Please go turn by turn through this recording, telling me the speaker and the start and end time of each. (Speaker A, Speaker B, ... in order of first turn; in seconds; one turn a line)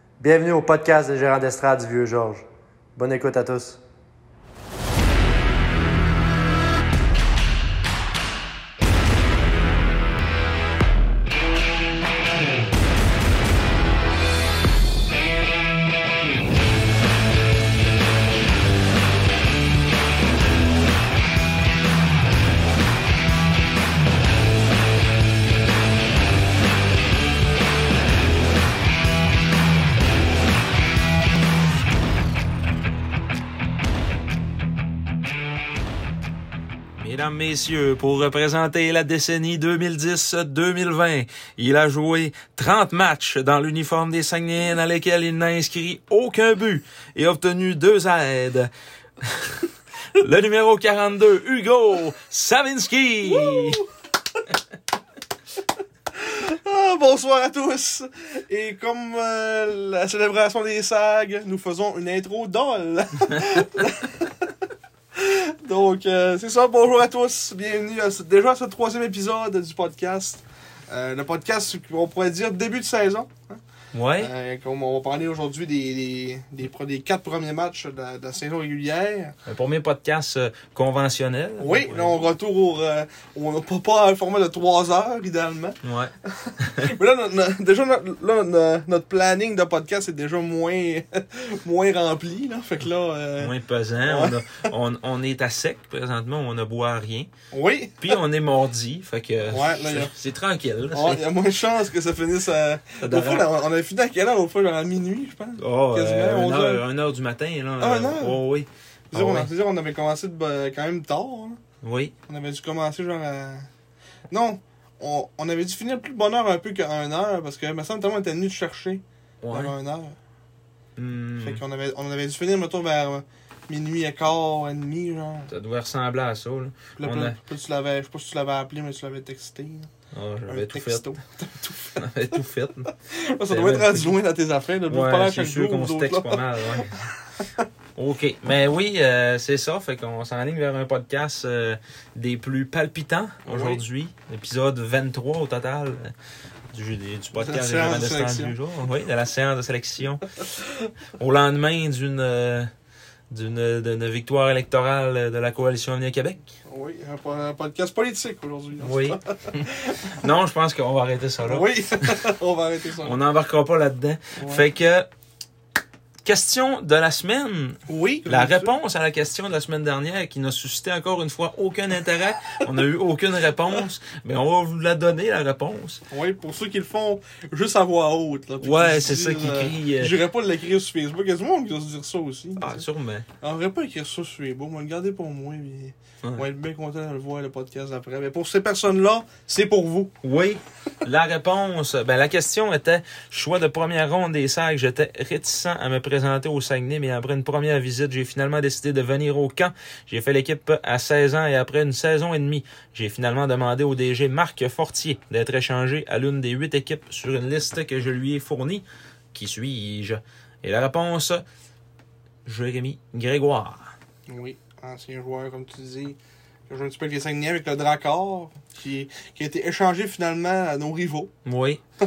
Speaker A: 0.2-3.8
Speaker B: 37.0-53.8
Speaker C: 53.4-53.8
Speaker C: 56.1-64.5
Speaker C: 65.1-73.6
Speaker B: 73.9-74.3
Speaker C: 74.2-79.4
Speaker B: 79.5-82.2
Speaker C: 81.6-94.4
Speaker B: 85.8-86.9
Speaker B: 93.4-97.3
Speaker C: 97.5-98.2
Speaker B: 98.0-101.2
Speaker C: 99.5-100.1
Speaker C: 100.9-106.8
Speaker B: 103.0-103.5
Speaker B: 105.6-109.5
Speaker C: 107.8-108.4
Speaker C: 109.1-111.6
Speaker B: 111.8-112.1
Speaker C: 112.3-113.7
Speaker C: 114.3-120.2
Speaker B: 119.4-119.8
Speaker B: 121.0-121.6
Speaker C: 121.4-125.5
Speaker B: 125.5-127.4
Speaker C: 127.0-129.9
Speaker B: 130.1-131.2
Speaker C: 130.5-132.4
Speaker B: 131.9-132.9
Speaker C: 132.9-137.7
Speaker B: 133.5-134.2
Speaker B: 134.9-137.0
Speaker B: 138.0-146.1
Speaker C: 143.4-143.8
Speaker B: 146.7-150.4
Speaker C: 147.3-148.5
Speaker B: 151.2-152.7
Speaker B: 153.3-156.5
Speaker C: 156.7-160.2
Speaker B: 158.8-162.2
Speaker C: 161.4-163.2
Speaker B: 163.0-165.1
Speaker C: 164.3-164.7
Speaker B: 166.2-176.0
Speaker C: 167.9-168.8
Speaker C: 176.1-182.9
Speaker B: 178.6-180.2
Speaker B: 182.6-183.2
Speaker C: 183.4-190.2
Speaker B: 190.2-211.4
Speaker B: 212.4-213.9
Speaker C: 214.3-216.2
Speaker C: 216.7-221.3
Speaker B: 221.4-221.8